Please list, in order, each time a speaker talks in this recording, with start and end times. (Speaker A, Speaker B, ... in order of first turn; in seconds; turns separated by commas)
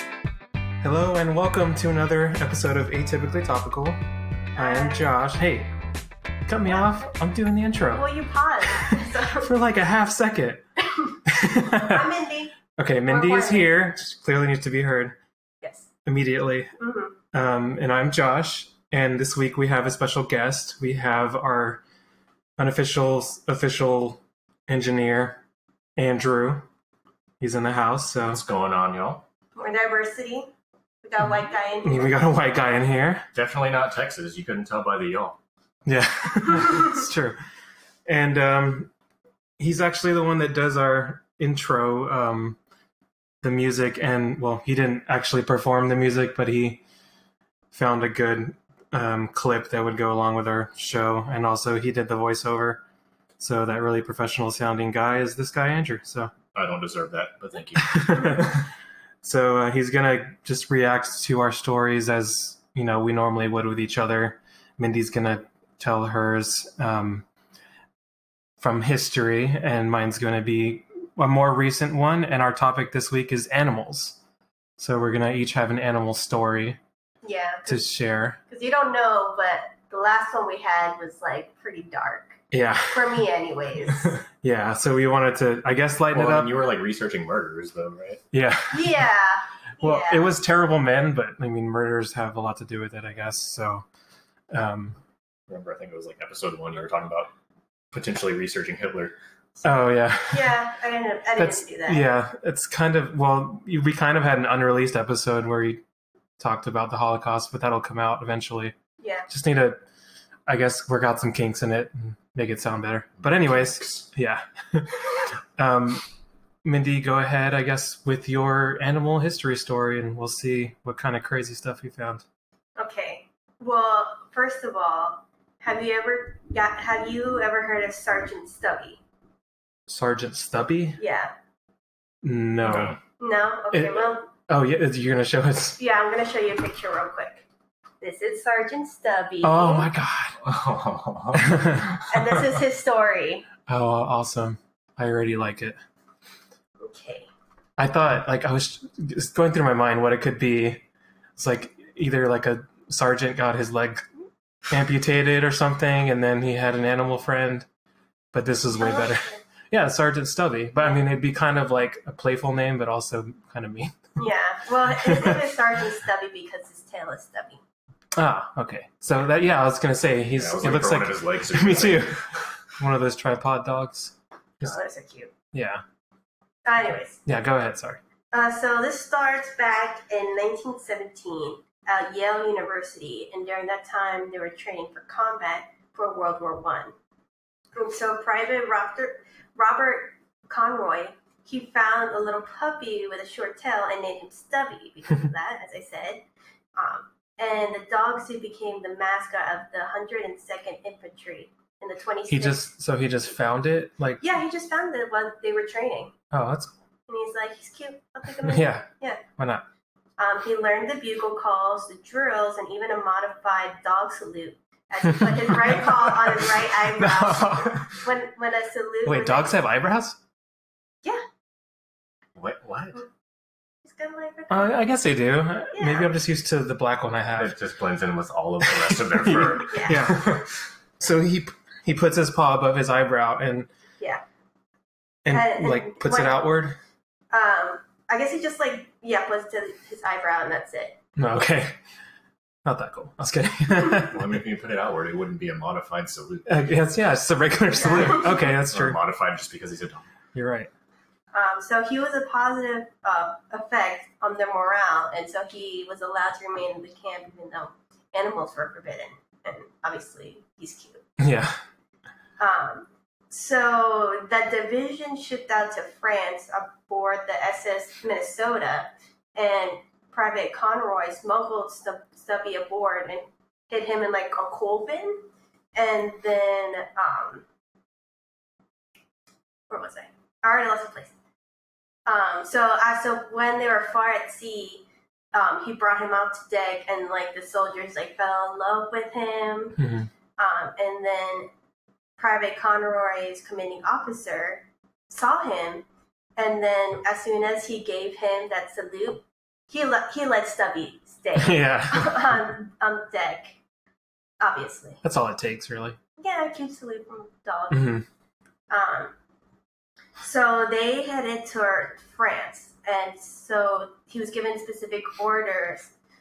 Speaker A: 0.8-4.0, Speaker B: 4.6-5.1, Speaker A: 4.6-5.7, Speaker A: 6.5-8.1, Speaker B: 7.9-9.5, Speaker A: 8.8-10.7, Speaker B: 11.0-12.6, Speaker A: 11.2-12.1, Speaker A: 12.8-15.2, Speaker B: 13.1-13.7, Speaker B: 15.6-15.9, Speaker A: 16.1-16.7, Speaker B: 16.8-17.2, Speaker A: 17.3-21.8, Speaker A: 22.6-25.4, Speaker A: 25.9-26.7, Speaker A: 27.4-28.4, Speaker C: 28.3-29.2, Speaker B: 29.5-30.5, Speaker B: 31.0-32.2, Speaker A: 31.8-33.2, Speaker C: 33.3-35.4, Speaker A: 35.9-37.4, Speaker A: 38.0-38.9, Speaker A: 39.6-42.6, Speaker A: 43.4-46.8, Speaker A: 47.7-52.8, Speaker A: 53.4-56.3, Speaker C: 56.5-58.4, Speaker A: 57.8-58.7, Speaker A: 59.2-67.2, Speaker A: 68.6-74.2, Speaker A: 74.8-76.8, Speaker B: 77.2-77.9, Speaker A: 77.7-78.4, Speaker B: 78.5-84.2, Speaker A: 82.5-83.2, Speaker A: 84.4-86.5, Speaker C: 86.1-88.2, Speaker A: 88.3-89.0, Speaker B: 88.7-90.3, Speaker A: 89.8-93.8, Speaker A: 94.5-95.0, Speaker C: 95.5-97.3, Speaker C: 97.9-99.2, Speaker A: 99.6-100.6, Speaker B: 100.3-102.0, Speaker A: 101.3-105.8, Speaker A: 106.4-108.7, Speaker B: 109.0-109.3, Speaker A: 109.3-109.8, Speaker A: 110.5-116.0, Speaker C: 113.2-114.0, Speaker A: 116.6-122.2, Speaker B: 122.8-129.0, Speaker A: 129.9-131.0, Speaker B: 131.0-131.3, Speaker A: 132.2-132.9, Speaker C: 132.6-133.0, Speaker B: 133.2-134.3, Speaker A: 133.7-135.8, Speaker B: 135.8-137.4, Speaker B: 138.0-139.9, Speaker A: 139.4-140.4, Speaker C: 140.4-142.0, Speaker A: 141.3-142.0, Speaker B: 142.1-143.5, Speaker A: 143.7-145.8, Speaker B: 146.8-147.3, Speaker A: 147.8-150.8, Speaker A: 151.4-154.0, Speaker A: 154.7-157.7, Speaker A: 158.3-164.0, Speaker B: 158.7-159.4, Speaker B: 164.2-167.6, Speaker A: 165.0-165.4, Speaker A: 168.1-172.2, Speaker C: 170.3-172.4, Speaker A: 172.7-174.8, Speaker B: 174.6-175.3, Speaker A: 175.5-175.8, Speaker B: 176.6-177.2, Speaker A: 177.2-178.0, Speaker B: 178.3-186.9, Speaker B: 187.7-196.2, Speaker B: 196.8-202.6, Speaker A: 202.3-204.2, Speaker B: 204.2-206.1, Speaker A: 206.3-206.7, Speaker B: 207.1-209.2, Speaker A: 208.4-209.6, Speaker B: 210.2-219.6, Speaker A: 215.1-215.9, Speaker A: 216.8-217.9, Speaker A: 219.0-220.2, Speaker C: 222.3-223.0, Speaker B: 223.8-224.8, Speaker A: 224.5-227.6, Speaker B: 225.7-226.1, Speaker C: 227.3-230.4, Speaker A: 228.6-230.4, Speaker B: 229.6-230.4, Speaker A: 231.0-233.7, Speaker A: 235.2-236.8, Speaker B: 235.3-236.5, Speaker B: 237.3-241.0, Speaker A: 241.2-241.8, Speaker A: 242.6-244.3, Speaker C: 243.9-246.6, Speaker A: 246.4-249.0, Speaker B: 247.7-248.5, Speaker C: 248.4-250.1, Speaker A: 250.3-250.7, Speaker B: 251.3-261.0, Speaker A: 261.2-261.6, Speaker B: 262.4-277.4, Speaker B: 279.7-281.1, Speaker B: 282.1-289.8, Speaker A: 289.8-290.1, Speaker B: 290.4-291.5, Speaker B: 292.2-295.8, Speaker B: 296.4-303.6, Speaker A: 301.4-302.4, Speaker B: 304.4-305.0, Speaker A: 305.0-306.0, Speaker B: 306.2-308.0, Speaker A: 307.7-308.0, Speaker B: 308.7-309.1, Speaker B: 310.2-315.9